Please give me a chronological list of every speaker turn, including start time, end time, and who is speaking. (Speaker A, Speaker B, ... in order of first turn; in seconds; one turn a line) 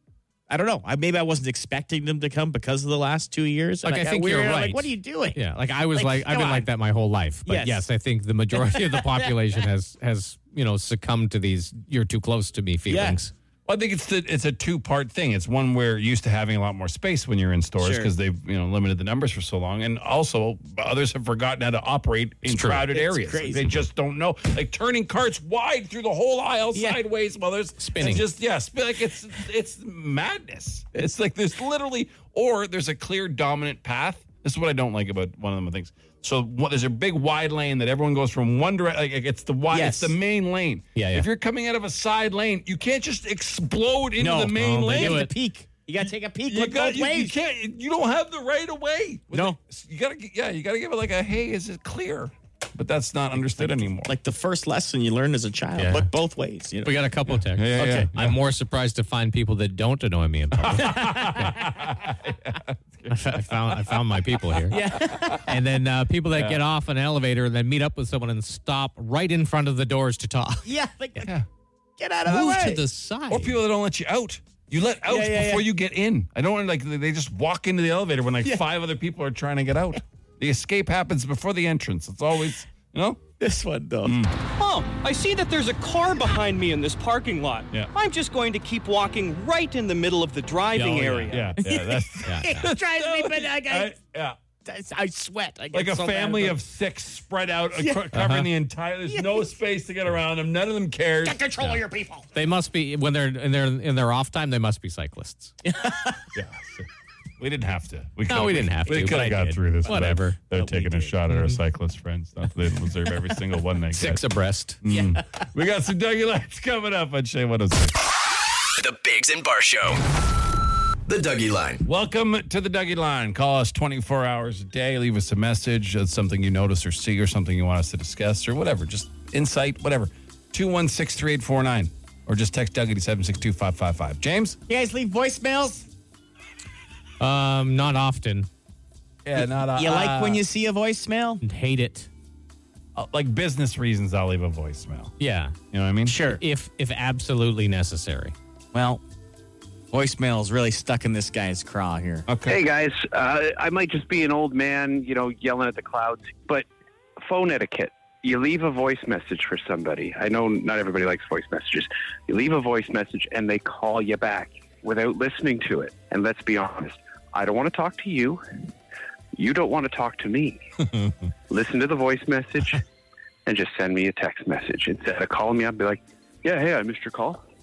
Speaker A: 0.5-5.4
Speaker B: 3.8-13.3
Speaker A: 5.9-6.7
Speaker A: 7.5-7.9
Speaker A: 8.5-9.3
Speaker A: 12.9-13.2
Speaker C: 13.7-45.3
Speaker A: 17.8-18.1
Speaker B: 22.4-22.9
Speaker A: 22.9-23.8
Speaker A: 26.7-27.0
Speaker B: 27.8-28.2
Speaker A: 39.7-40.2
Speaker B: 40.9-41.2
Speaker A: 44.2-47.4
Speaker B: 44.6-45.3
Speaker C: 46.5-54.1
Speaker A: 49.3-49.6
Speaker A: 53.6-57.1
Speaker B: 55.8-56.1
Speaker B: 56.8-61.5
Speaker C: 57.5-58.4
Speaker C: 60.6-64.0
Speaker B: 63.1-64.8
Speaker A: 64.7-65.5
Speaker C: 64.8-65.4
Speaker B: 65.4-70.7
Speaker C: 66.3-66.6
Speaker A: 70.6-71.3
Speaker A: 72.0-72.8
Speaker B: 72.2-73.6
Speaker C: 73.3-83.2
Speaker A: 75.1-75.7
Speaker A: 83.4-84.2
Speaker C: 84.0-84.3
Speaker D: 84.6-91.3
Speaker B: 90.7-91.5
Speaker C: 91.3-94.4
Speaker A: 91.6-93.9
Speaker B: 92.2-92.7
Speaker A: 94.6-96.6
Speaker C: 95.7-101.4
Speaker A: 97.8-98.0
Speaker B: 98.1-98.5
Speaker A: 99.0-99.6
Speaker A: 101.2-102.3
Speaker B: 102.3-105.5
Speaker A: 105.7-106.2
Speaker C: 106.3-106.9
Speaker C: 107.4-114.2
Speaker B: 108.3-110.4
Speaker A: 110.5-111.2
Speaker B: 111.3-111.6
Speaker B: 113.9-114.8
Speaker C: 114.8-117.9
Speaker A: 114.8-115.2
Speaker E: 118.8-120.0
Speaker E: 121.0-121.8
Speaker C: 121.8-134.6
Speaker A: 134.7-135.9
Speaker B: 137.2-138.5
Speaker C: 139.2-140.4
Speaker A: 139.7-141.4
Speaker B: 141.4-142.1
Speaker C: 142.9-145.1
Speaker B: 145.2-145.5
Speaker C: 145.7-146.2
Speaker A: 146.0-146.4
Speaker B: 146.3-148.3
Speaker A: 148.7-149.0
Speaker A: 149.9-152.2
Speaker C: 152.3-152.6
Speaker F: 152.5-156.7
Speaker F: 157.2-168.4
Speaker F: 169.3-170.6
Speaker F: 171.5-172.8
Speaker F: 173.4-177.4